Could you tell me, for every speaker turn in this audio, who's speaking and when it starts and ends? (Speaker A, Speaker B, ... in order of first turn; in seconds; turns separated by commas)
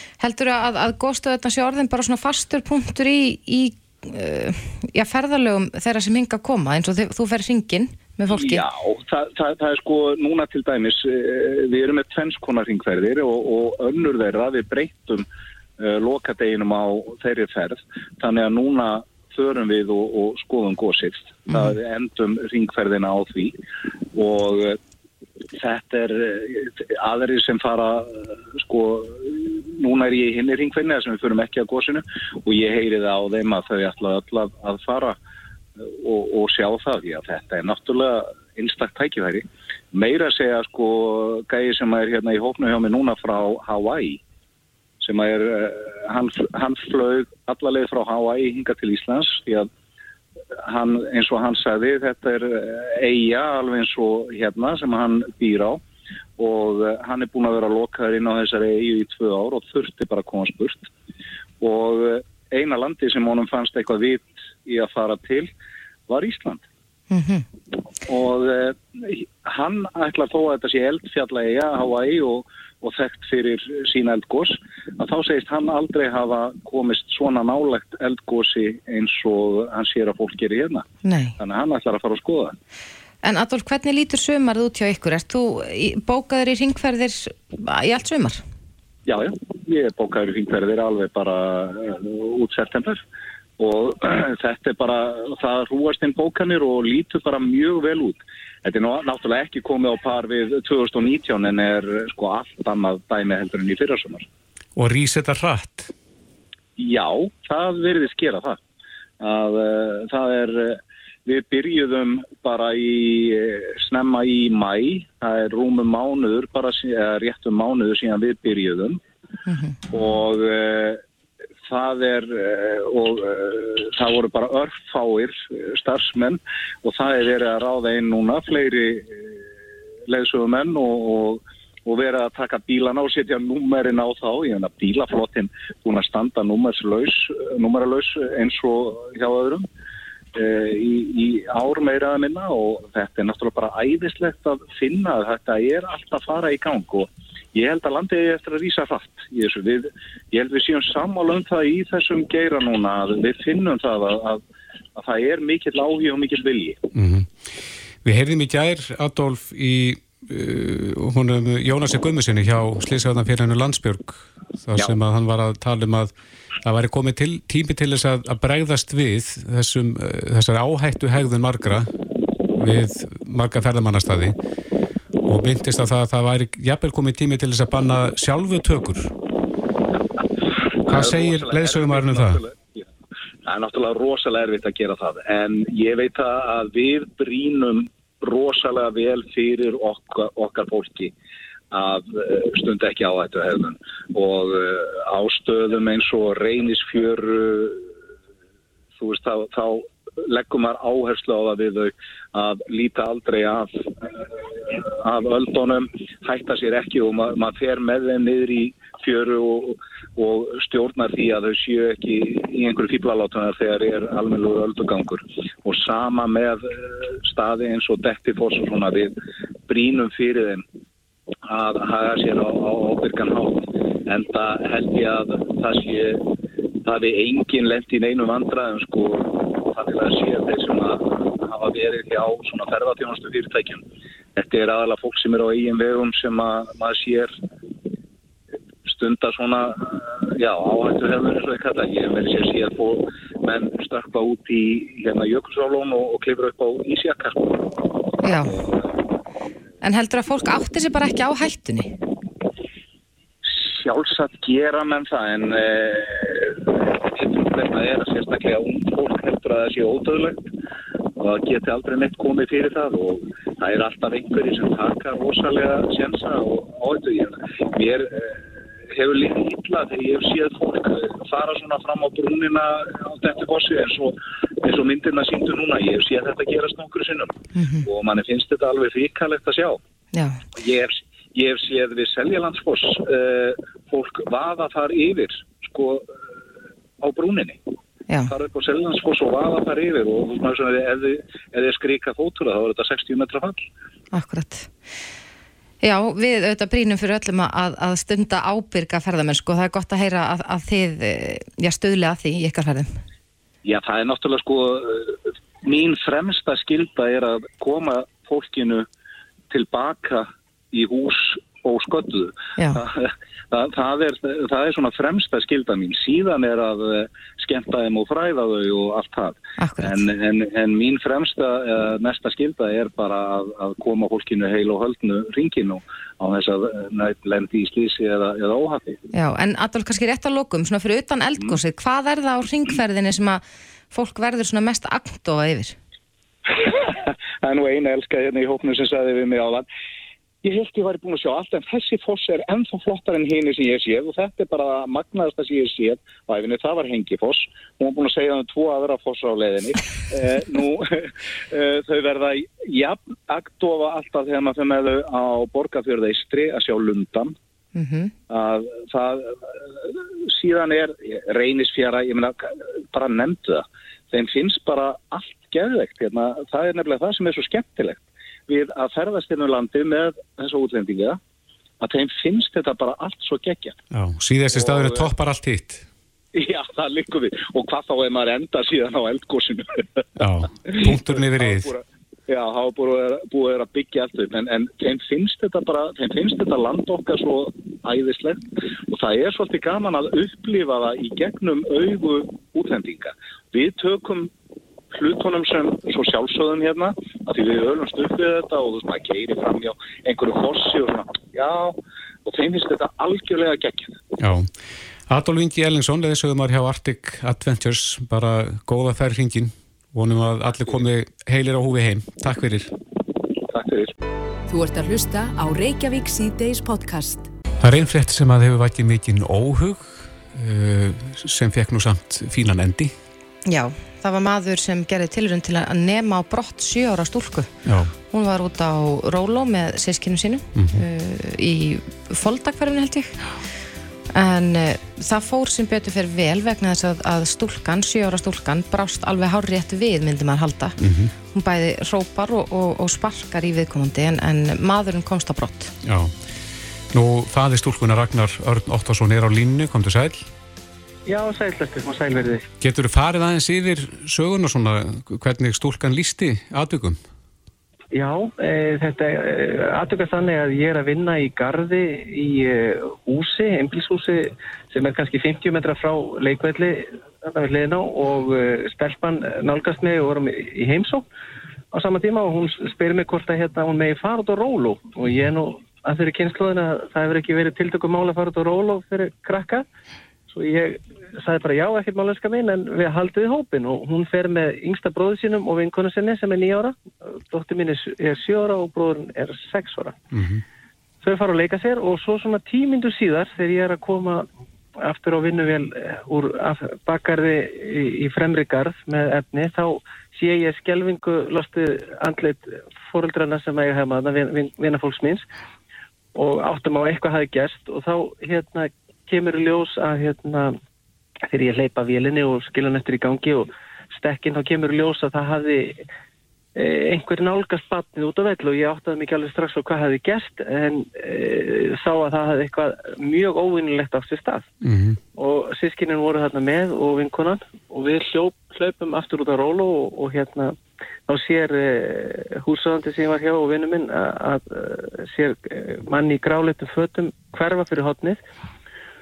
Speaker A: 0.2-8.6, Speaker B: 8.3-15.3, Speaker B: 15.8-23.6, Speaker B: 24.1-24.8, Speaker B: 25.6-35.2, Speaker B: 35.9-44.2, Speaker B: 45.0-49.7, Speaker B: 50.6-55.8, Speaker B: 56.4-60.9, Speaker B: 61.6-65.5, Speaker B: 66.1-66.6, Speaker A: 67.1-67.5, Speaker B: 68.1-80.9, Speaker A: 81.0-81.4, Speaker B: 81.4-82.5, Speaker A: 83.2-88.4, Speaker B: 89.1-93.0, Speaker B: 93.6-104.3, Speaker C: 104.8-105.9, Speaker B: 106.8-108.6, Speaker B: 109.2-119.0, Speaker A: 119.5-119.8, Speaker B: 119.9-121.0, Speaker B: 121.7-129.4, Speaker B: 130.1-139.7, Speaker B: 140.4-154.4, Speaker B: 155.0-156.8, Speaker C: 156.9-157.3, Speaker C: 158.0-166.1, Speaker C: 166.6-171.9, Speaker C: 172.6-174.3, Speaker C: 175.3-179.1, Speaker B: 180.8-182.9, Speaker C: 180.9-182.4, Speaker B: 183.4-191.1, Speaker B: 191.7-197.9, Speaker B: 199.0-219.2, Speaker B: 219.7-220.6, Speaker B: 221.5-226.3, Speaker B: 226.8-233.8, Speaker B: 234.4-237.3, Speaker B: 238.8-247.8, Speaker A: 248.2-248.6, Speaker A: 249.8-251.9, Speaker B: 253.4-260.4, Speaker B: 261.2-279.8, Speaker A: 277.6-277.9, Speaker A: 280.1-280.4, Speaker B: 280.6-286.1, Speaker B: 287.0-287.6, Speaker A: 288.1-288.3, Speaker B: 288.3-293.6, Speaker A: 294.1-294.7, Speaker A: 295.8-303.0, Speaker B: 303.6-308.9, Speaker B: 309.5-329.0, Speaker A: 312.6-312.8, Speaker A: 319.6-320.1, Speaker A: 329.1-335.8, Speaker B: 336.5-339.6, Speaker B: 340.4-357.4, Speaker A: 357.8-358.1, Speaker B: 358.3-371.2, Speaker B: 371.8-373.8, Speaker C: 373.9-375.9, Speaker B: 374.5-375.1, Speaker B: 376.3-380.0, Speaker C: 380.2-381.7, Speaker B: 380.6-394.3, Speaker B: 394.9-401.8, Speaker B: 402.3-404.0, Speaker C: 404.2-404.5, Speaker C: 405.1-412.7, Speaker B: 413.4-413.9, Speaker D: 414.5-417.3, Speaker C: 417.6-422.9, Speaker A: 423.5-427.5, Speaker C: 427.7-427.9, Speaker A: 428.1-433.1, Speaker C: 430.6-430.8, Speaker A: 434.1-440.8, Speaker C: 440.8-441.1, Speaker A: 441.3-445.7, Speaker C: 445.8-446.2, Speaker C: 446.9-450.2, Speaker E: 451.1-452.4, Speaker C: 452.6-457.0, Speaker E: 457.9-471.1, Speaker E: 471.7-479.7, Speaker E: 480.3-486.8, Speaker E: 487.3-490.0, Speaker C: 490.1-490.4, Speaker E: 491.0-494.3, Speaker E: 494.8-505.2, Speaker E: 506.1-510.6, Speaker E: 511.3-515.8, Speaker E: 516.6-524.5, Speaker C: 524.6-525.0, Speaker E: 525.2-530.5, Speaker E: 531.1-538.2